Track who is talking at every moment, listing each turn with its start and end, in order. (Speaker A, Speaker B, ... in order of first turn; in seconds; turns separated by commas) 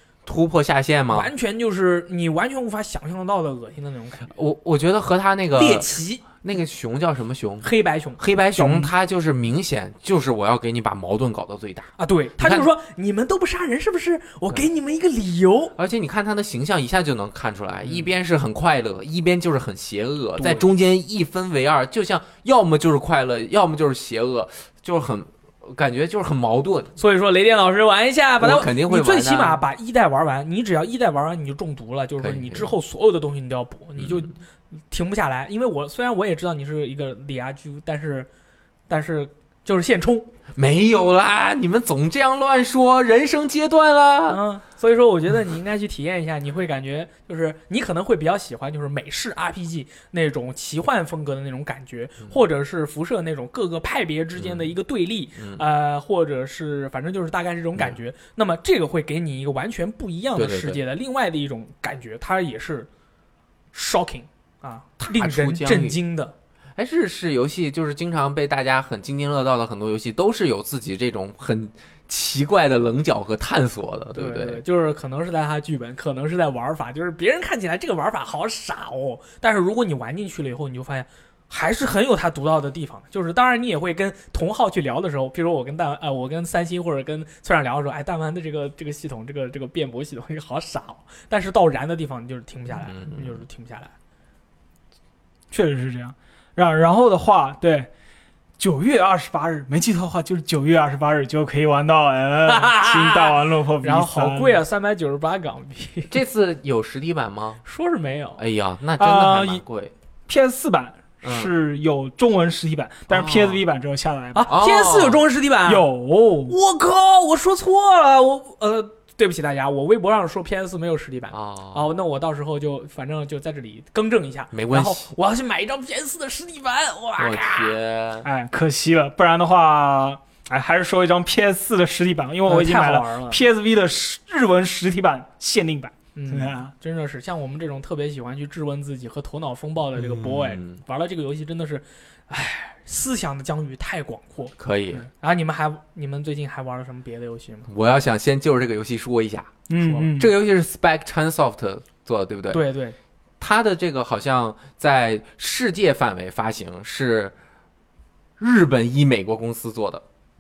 Speaker A: 0.3-1.3, Speaker B: 1.1-4.3, Speaker A: 4.3-12.7, Speaker B: 5.5-6.2, Speaker B: 7.6-8.9, Speaker B: 12.0-15.7, Speaker A: 15.8-26.9, Speaker B: 20.4-20.6, Speaker B: 27.0-34.4, Speaker A: 28.4-29.6, Speaker A: 32.2-32.7, Speaker A: 34.0-34.2, Speaker B: 34.9-38.3, Speaker B: 38.9-40.3, Speaker A: 40.6-44.4, Speaker B: 44.3-62.9, Speaker A: 54.4-54.7, Speaker A: 55.4-55.6, Speaker A: 60.4-60.8, Speaker B: 63.7-66.3, Speaker A: 65.0-66.0, Speaker A: 66.8-74.6, Speaker B: 74.2-93.9, Speaker A: 92.7-93.4, Speaker C: 95.5-97.9, Speaker C: 98.6-104.6, Speaker B: 102.5-106.1, Speaker A: 106.1-107.6, Speaker B: 107.7-108.4, Speaker A: 108.4-109.9, Speaker C: 109.0-109.6, Speaker C: 110.3-114.5, Speaker A: 111.2-111.5, Speaker A: 113.1-113.6, Speaker B: 114.3-115.8, Speaker A: 114.5-115.2, Speaker C: 115.7-116.5, Speaker B: 116.5-127.8, Speaker A: 121.3-121.9, Speaker A: 124.5-125.1, Speaker A: 127.2-128.3, Speaker C: 128.2-136.7, Speaker B: 132.5-133.4, Speaker B: 136.2-147.7, Speaker A: 140.0-140.8, Speaker A: 144.6-145.0, Speaker A: 147.7-149.6, Speaker C: 149.7-150.3, Speaker B: 149.8-150.1, Speaker A: 150.1-152.6, Speaker B: 152.5-153.0, Speaker A: 153.4-157.3, Speaker A: 158.4-160.0